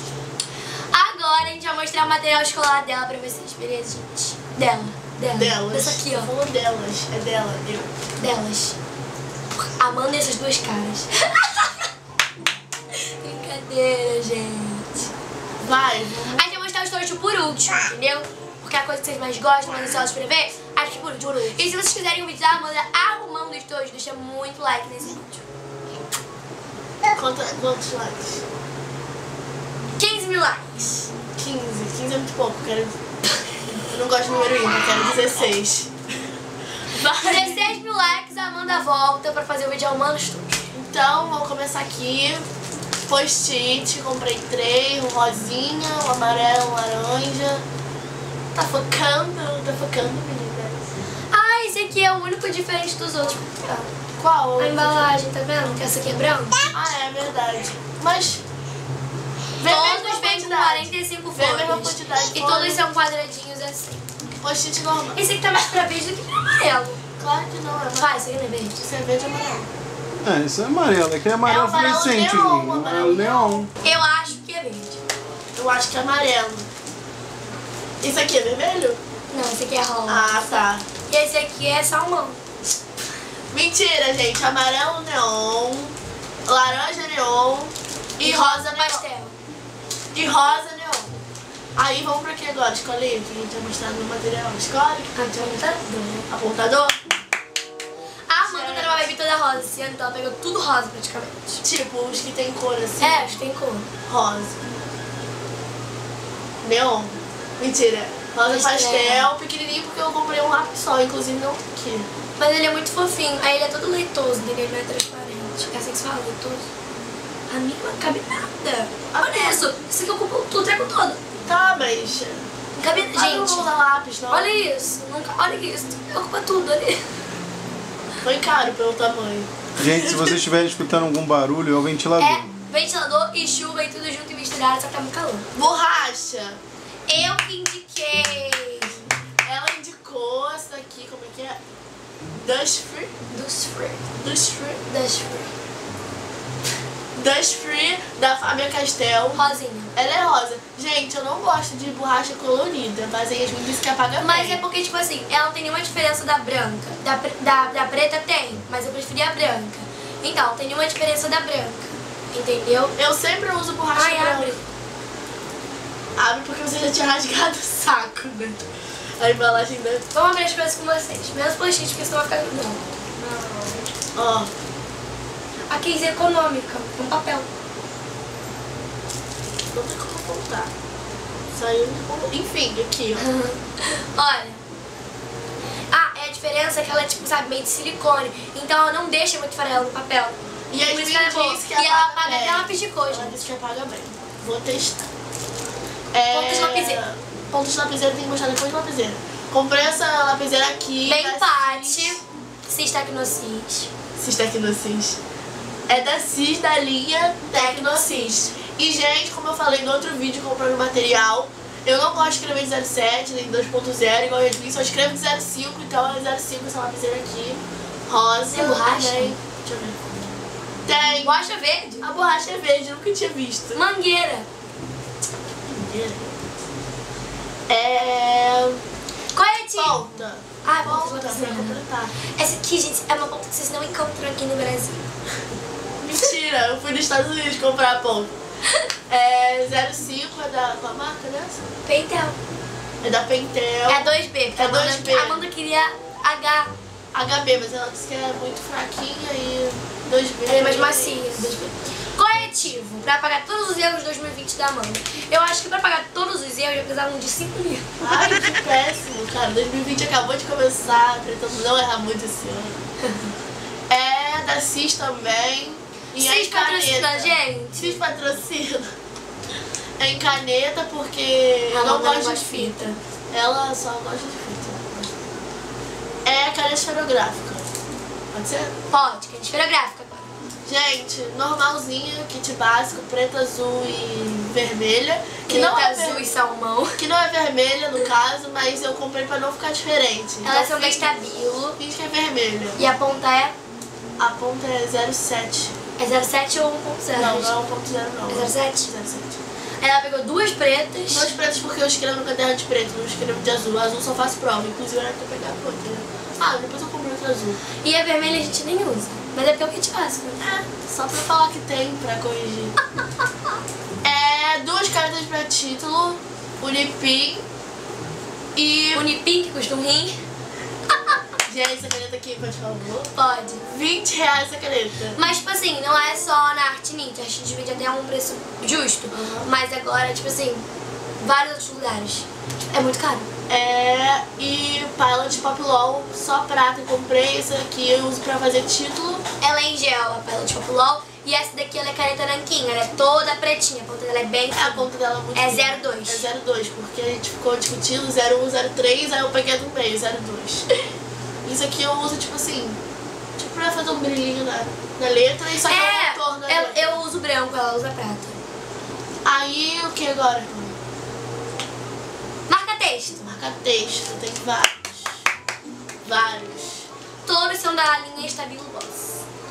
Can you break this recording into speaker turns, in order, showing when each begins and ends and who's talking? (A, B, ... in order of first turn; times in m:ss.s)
0:00.9-0:06.3 A
0:05.4-0:07.9 B
0:08.2-0:08.8 A
0:09.6-0:11.9 A
0:13.2-0:15.1 A
0:15.6-0:16.5 B
0:16.4-0:25.4 A
0:27.1-0:28.4 B
0:30.0-0:31.1 A
0:31.4-0:33.0 B
0:33.7-0:35.9 B
0:36.9-0:37.6 B
0:37.1-0:40.6 A
0:40.7-0:42.5 B
0:43.1-0:47.6 B
0:48.6-0:50.9 B
0:51.3-0:53.9 A
0:54.2-0:55.1 B
0:54.6-0:56.7 A
0:56.7-0:58.4 B
0:59.6-1:02.8 B
0:59.6-1:04.0 A
1:04.4-1:05.2 B
1:05.1-1:07.0 A
1:07.2-1:08.2 B
1:08.0-1:08.8 A
1:08.8-1:09.7 B
1:10.2-1:13.7 C
1:11.4-1:13.6 B
1:13.8-1:15.0 A
1:15.6-1:16.7 B
1:18.0-1:19.0 B
1:19.3-1:22.4 A
1:20.1-1:20.8 B
1:23.5-1:29.0 B
1:28.2-1:29.3 A
1:30.1-1:31.1 B
1:31.8-1:35.2 B
1:35.1-1:36.3 A
1:36.3-1:37.0 B
1:38.3-1:41.6 A
1:38.4-1:39.1 B
1:41.6-1:43.3 B
1:43.0-1:43.9 A
1:44.1-1:44.5 B
1:46.6-1:52.1 B
1:48.5-1:49.3 A
1:52.4-1:56.7 A
1:57.5-2:01.2 A
1:59.1-1:59.7 B
2:01.4-2:04.5 B
2:02.8-2:03.7 A
2:04.3-2:07.0 A
2:08.2-2:10.4 B
2:09.8-2:12.4 C
2:12.2-2:15.5 A
2:15.5-2:16.6 B
2:17.1-2:19.0 A
2:19.4-2:21.6 B
2:22.4-2:23.1 B
2:23.3-2:24.0 A
2:24.2-2:24.8 B
2:24.8-2:25.5 A
2:27.2-2:29.4 B
2:29.3-2:29.9 A
2:29.9-2:34.6 B
2:34.2-2:42.9 A
2:43.0-2:44.6 B
2:43.9-2:44.6 A
2:46.2-2:48.6 B
2:49.2-2:50.0 B
2:50.1-2:53.8 A
2:54.2-2:54.5 B
2:55.7-2:57.5 A
2:59.7-3:00.7 B
3:01.5-3:03.2 B
3:03.2-3:04.6 A
3:05.9-3:13.5 A
3:10.7-3:15.1 B
3:16.1-3:22.2 B
3:16.3-3:17.0 A
3:21.0-3:23.9 A
3:24.2-3:25.2 B
3:25.9-3:40.0 B
3:27.5-3:28.5 A
3:38.5-3:39.3 A
3:40.8-3:41.3 B
3:41.2-3:42.0 A
3:42.0-3:43.8 B
3:43.8-3:44.5 A
3:45.7-3:46.3 B
3:47.7-3:48.8 B
3:49.3-3:50.0 A
3:49.7-3:52.2 B
3:50.6-3:51.8 A
3:52.3-3:55.0 A
3:56.0-3:58.3 B
3:59.1-4:01.6 B
4:01.8-4:02.4 A
4:03.0-4:05.5 B
4:03.9-4:06.7 A
4:07.1-4:11.5 B
4:10.5-4:18.4 A
4:18.0-4:22.8 B
4:23.0-4:23.3 A
4:23.9-4:28.9 B
4:26.1-4:28.0 A
4:30.0-4:35.3 B
4:31.7-4:33.0 A
4:36.2-4:37.7 B
4:38.3-4:38.8 B
4:38.9-4:40.3 A
4:40.7-4:46.3 B
4:45.5-4:47.0 A
4:47.0-4:51.1 B
4:50.4-4:51.8 A
4:51.8-4:52.8 B
4:52.8-4:53.6 A
4:54.2-4:55.7 B
4:56.0-4:57.5 A
4:57.2-4:59.4 B
4:58.3-4:58.9 A
4:59.8-5:01.3 A
5:01.1-5:07.6 B
5:07.8-5:10.5 A
5:10.4-5:12.8 B
5:14.0-5:17.5 B
5:18.6-5:19.1 B
5:18.9-5:20.2 A
5:21.5-5:23.1 B
5:23.1-5:23.6 A
5:23.7-5:25.2 B
5:25.1-5:30.7 A
5:29.1-5:29.5 B
5:31.2-5:33.3 A
5:33.5-5:39.2 B
5:39.4-5:46.3 A
5:44.5-5:50.7 B
5:51.4-5:52.8 B
5:53.4-5:57.0 B
5:55.6-5:58.4 A
5:59.2-6:00.8 B
6:02.5-6:03.3 A
6:03.2-6:05.2 B
6:06.0-6:06.9 B
6:07.2-6:09.2 A